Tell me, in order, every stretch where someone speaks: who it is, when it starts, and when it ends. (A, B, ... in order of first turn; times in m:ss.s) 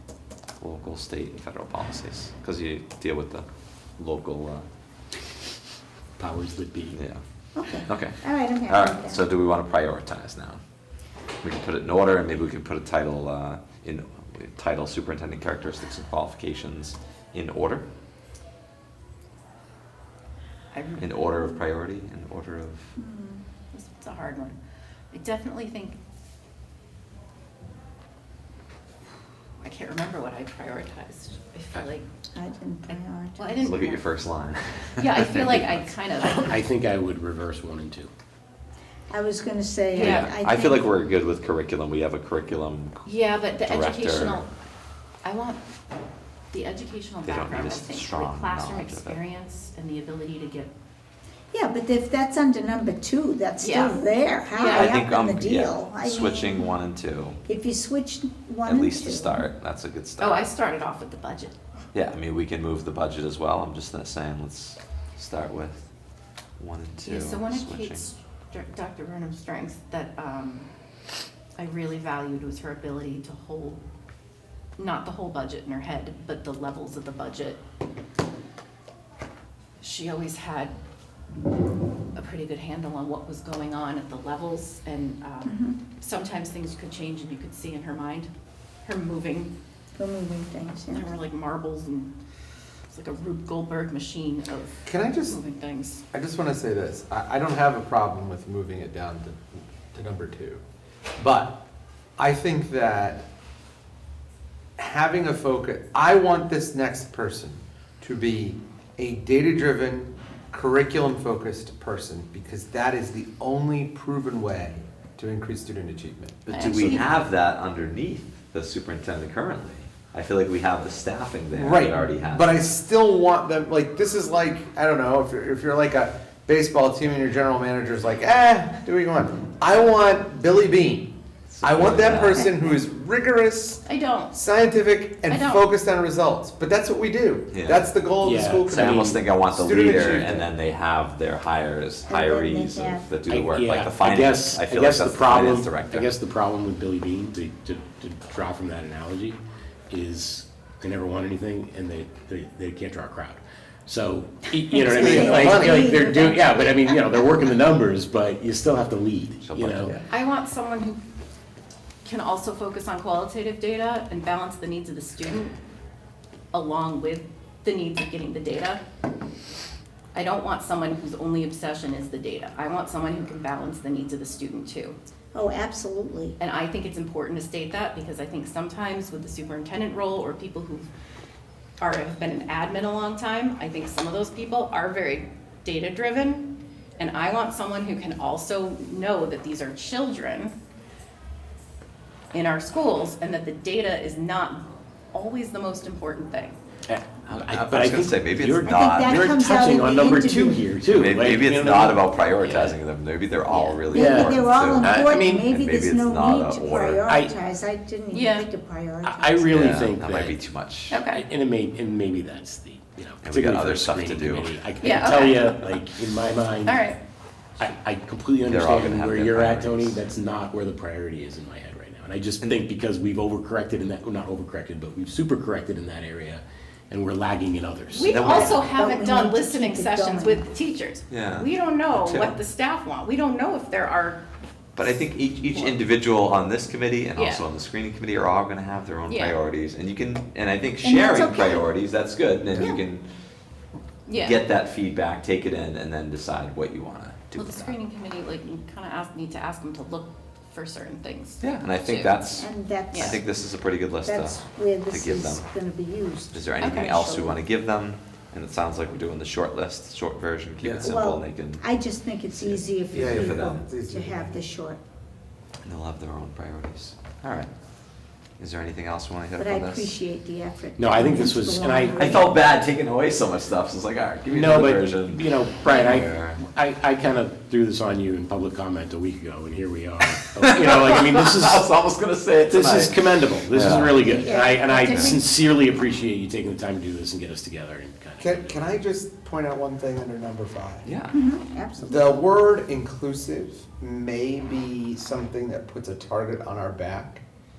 0:00.6-0:03.4 A
0:04.0-0:04.7 A
0:06.2-0:07.0 B
0:06.9-0:07.2 A
0:07.6-0:09.2 C
0:07.7-0:10.6 A
0:11.4-0:17.9 A
0:20.7-0:21.6 D
0:21.0-0:22.9 A
0:23.0-0:23.4 C
0:23.7-0:24.6 D
0:25.1-0:26.0 D
0:29.6-0:32.0 D
0:32.4-0:33.8 C
0:32.9-0:34.0 D
0:33.6-0:36.6 A
0:35.0-0:36.6 D
0:36.5-0:38.1 B
0:39.1-0:40.9 C
0:39.9-0:44.4 A
0:40.0-0:40.3 D
0:43.0-0:44.5 D
0:45.2-0:45.6 D
0:46.5-0:50.7 D
0:47.3-0:49.2 A
0:51.5-0:56.7 C
0:53.6-0:55.0 D
0:54.7-0:57.4 A
0:57.4-0:59.4 C
0:58.7-1:00.5 A
1:00.2-1:01.6 D
1:01.9-1:05.9 A
1:06.6-1:08.1 A
1:07.0-1:10.7 D
1:11.6-1:13.8 D
1:14.8-1:17.6 D
1:19.8-1:20.8 D
1:22.2-1:28.3 D
1:25.4-1:25.8 C
1:28.8-1:29.5 D
1:30.0-1:31.2 C
1:30.9-1:32.1 D
1:32.9-1:36.0 D
1:34.9-1:35.4 E
1:36.1-1:40.6 E
1:41.2-1:41.6 E
1:42.2-1:43.2 E
1:44.8-1:56.4 E
1:56.5-2:02.6 A
1:56.5-1:57.1 D
2:01.5-2:20.5 E
2:11.5-2:12.5 A
2:13.8-2:14.4 D
2:15.3-2:15.7 D
2:17.5-2:17.9 A
2:18.2-2:19.2 B
2:18.8-2:26.1 A
2:22.1-2:23.1 C
2:23.3-2:40.0 B
2:34.7-2:36.9 C
2:34.9-2:35.8 E
2:39.4-2:40.0 A
2:40.1-2:41.0 D
2:42.0-2:45.6 D
2:46.5-2:48.8 D
2:50.1-2:55.0 D
2:55.3-2:56.4 C
2:56.4-3:00.9 D
3:01.8-3:10.6 D
3:12.3-3:16.6 D
3:16.9-3:22.8 B
3:17.3-3:19.3 A
3:18.6-3:20.7 C
3:20.9-3:27.1 A
3:23.5-3:23.8 D
3:23.8-3:29.6 C
3:23.9-3:25.5 B
3:27.1-3:27.3 B
3:28.1-3:28.5 D
3:29.0-3:30.4 B
3:29.5-3:31.0 A
3:30.9-3:31.2 D
3:31.0-3:36.9 B
3:33.2-3:34.6 A
3:34.8-3:35.6 D
3:36.6-3:37.0 D
3:37.6-3:48.2 B
3:38.4-3:40.0 A
3:47.9-3:54.2 D
3:48.1-3:48.7 A
3:48.2-3:50.5 C
3:51.1-3:52.4 A
3:54.8-4:03.0 A
3:55.5-3:55.8 D
3:57.2-3:57.4 D
3:59.1-3:59.4 D
4:00.8-4:01.7 C
4:04.1-4:04.4 D
4:04.1-4:07.8 A
4:07.4-4:12.2 D
4:11.4-4:15.5 A
4:12.4-4:13.2 C
4:12.9-4:13.2 D
4:14.0-4:17.4 C
4:16.3-4:21.6 A
4:16.6-4:16.9 D
4:20.6-4:20.9 E
4:20.8-4:24.8 C
4:22.4-4:23.7 A
4:22.9-4:24.4 E
4:25.6-4:27.5 A
4:28.4-4:30.0 A
4:29.4-4:32.4 C
4:30.8-4:32.1 B
4:31.9-4:36.4 A
4:34.3-4:41.7 B
4:40.2-4:45.2 A
4:42.5-4:48.8 B
4:43.8-4:45.2 C
4:48.2-4:50.9 E
4:50.8-4:51.1 A
4:51.1-4:52.2 C
4:51.8-4:57.2 E